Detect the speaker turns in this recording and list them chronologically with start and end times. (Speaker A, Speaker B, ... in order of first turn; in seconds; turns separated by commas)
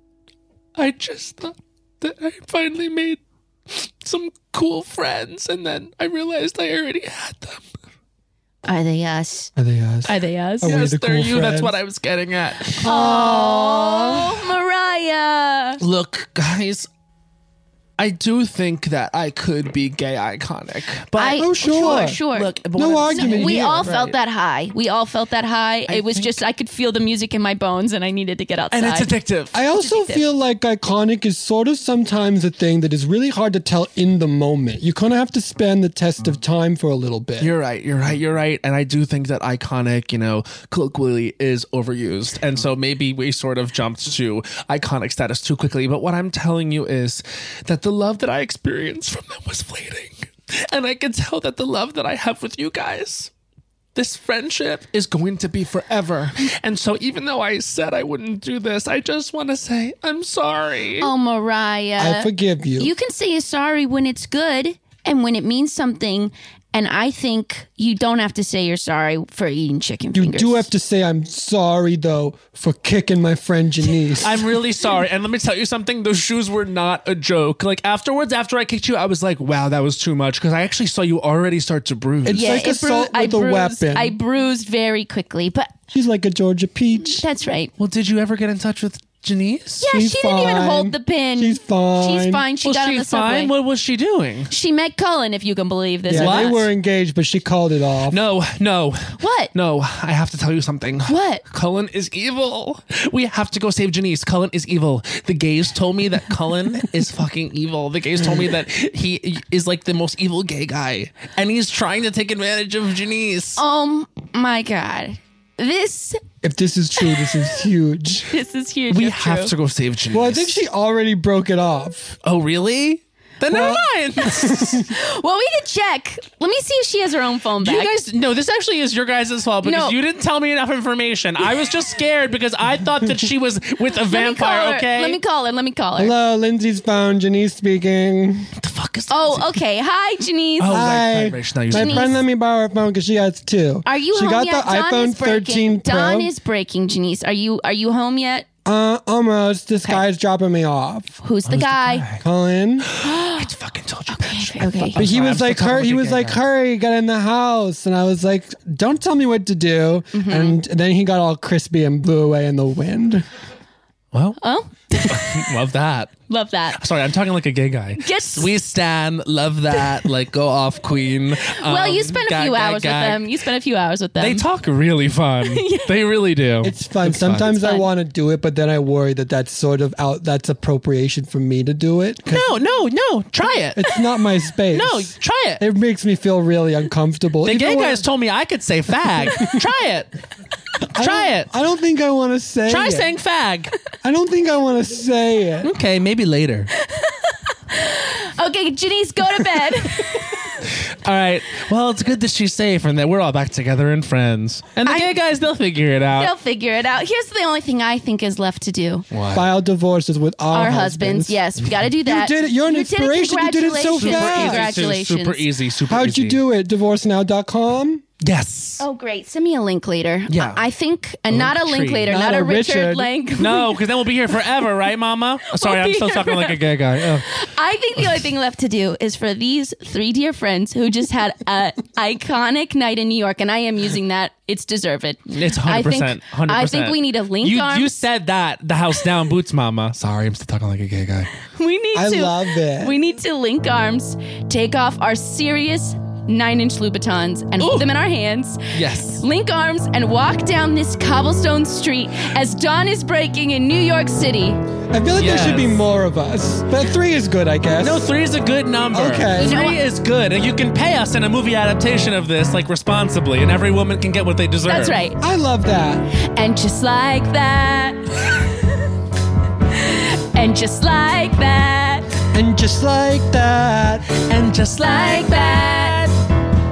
Speaker A: 0.8-7.6, Speaker B: 8.7-9.5, Speaker C: 9.6-11.8, Speaker B: 10.1-10.7, Speaker A: 10.6-12.8, Speaker C: 12.8-14.4, Speaker B: 12.8-15.8, Speaker A: 15.8-16.9, Speaker A: 18.0-24.1, Speaker B: 21.1-22.5, Speaker C: 21.2-22.2, Speaker C: 22.7-23.9, Speaker B: 23.1-29.1, Speaker A: 25.9-26.4, Speaker A: 28.7-29.6, Speaker C: 29.5-37.5, Speaker B: 29.7-30.2, Speaker A: 37.4-53.3, Speaker A: 53.9-61.1, Speaker B: 61.0-70.7, Speaker C: 62.0-62.9, Speaker C: 70.1-74.4, Speaker A: 74.2-82.7, Speaker C: 82.2-84.2, Speaker B: 82.3-85.7, Speaker C: 85.9-87.2, Speaker B: 87.0-87.7, Speaker A: 87.8-89.8, Speaker B: 89.8-93.5, Speaker C: 89.9-92.4, Speaker A: 92.6-94.5, Speaker B: 94.5-96.6, Speaker C: 96.1-98.2, Speaker A: 96.1-96.6, Speaker A: 98.1-113.6, Speaker B: 99.2-99.5, Speaker B: 101.1-101.4, Speaker B: 113.6-116.2, Speaker C: 116.4-118.3, Speaker B: 117.0-117.3, Speaker B: 118.3-119.5, Speaker A: 118.9-120.6, Speaker C: 120.1-122.1, Speaker A: 122.2-124.8, Speaker C: 123.5-124.8, Speaker B: 124.9-127.9, Speaker A: 127.6-135.2, Speaker B: 129.6-130.0, Speaker B: 134.1-136.1, Speaker C: 136.0-138.5, Speaker A: 138.6-139.6, Speaker B: 139.1-140.9, Speaker A: 140.6-142.1, Speaker C: 140.7-146.3, Speaker B: 141.7-142.2, Speaker B: 143.8-148.5, Speaker C: 148.6-151.2, Speaker B: 151.2-152.0, Speaker A: 151.4-152.2, Speaker C: 152.2-152.9, Speaker A: 152.9-156.4, Speaker B: 153.0-153.5, Speaker B: 154.1-155.0, Speaker C: 154.9-163.2, Speaker B: 160.1-160.6, Speaker A: 164.1-164.4, Speaker B: 164.4-165.5, Speaker A: 165.0-166.1, Speaker B: 166.3-166.8, Speaker A: 166.8-173.3, Speaker B: 168.0-168.5, Speaker B: 171.5-174.4, Speaker A: 174.2-177.6, Speaker B: 175.4-176.0, Speaker C: 176.6-182.5, Speaker B: 177.4-177.9, Speaker A: 182.3-183.8, Speaker C: 183.7-188.1, Speaker A: 184.7-185.6, Speaker A: 187.4-190.1, Speaker C: 190.9-193.1, Speaker A: 191.0-191.5, Speaker A: 192.7-193.7, Speaker C: 194.0-195.7, Speaker A: 195.6-196.7, Speaker B: 196.8-200.5, Speaker A: 199.9-206.3, Speaker B: 204.8-205.1, Speaker B: 206.2-209.0, Speaker A: 209.1-209.5, Speaker C: 209.3-214.7, Speaker B: 210.5-215.5, Speaker A: 213.9-216.4, Speaker C: 215.9-218.0, Speaker A: 218.2-218.8, Speaker B: 218.8-223.8, Speaker A: 220.3-220.6, Speaker A: 221.3-222.2, Speaker C: 222.1-223.1, Speaker A: 223.4-227.3, Speaker B: 225.5-226.6, Speaker B: 227.3-238.0, Speaker A: 235.3-241.3, Speaker B: 241.5-248.6, Speaker C: 241.9-242.9, Speaker A: 247.6-247.9, Speaker A: 248.7-249.2, Speaker B: 249.2-254.6, Speaker C: 254.9-258.1, Speaker A: 255.2-255.8, Speaker A: 257.8-265.0, Speaker C: 258.9-259.5, Speaker B: 259.4-259.8, Speaker B: 264.7-265.2, Speaker C: 265.2-266.1, Speaker B: 266.4-268.7, Speaker B: 269.7-272.1, Speaker C: 272.3-274.1, Speaker A: 274.3-276.1, Speaker B: 274.8-276.0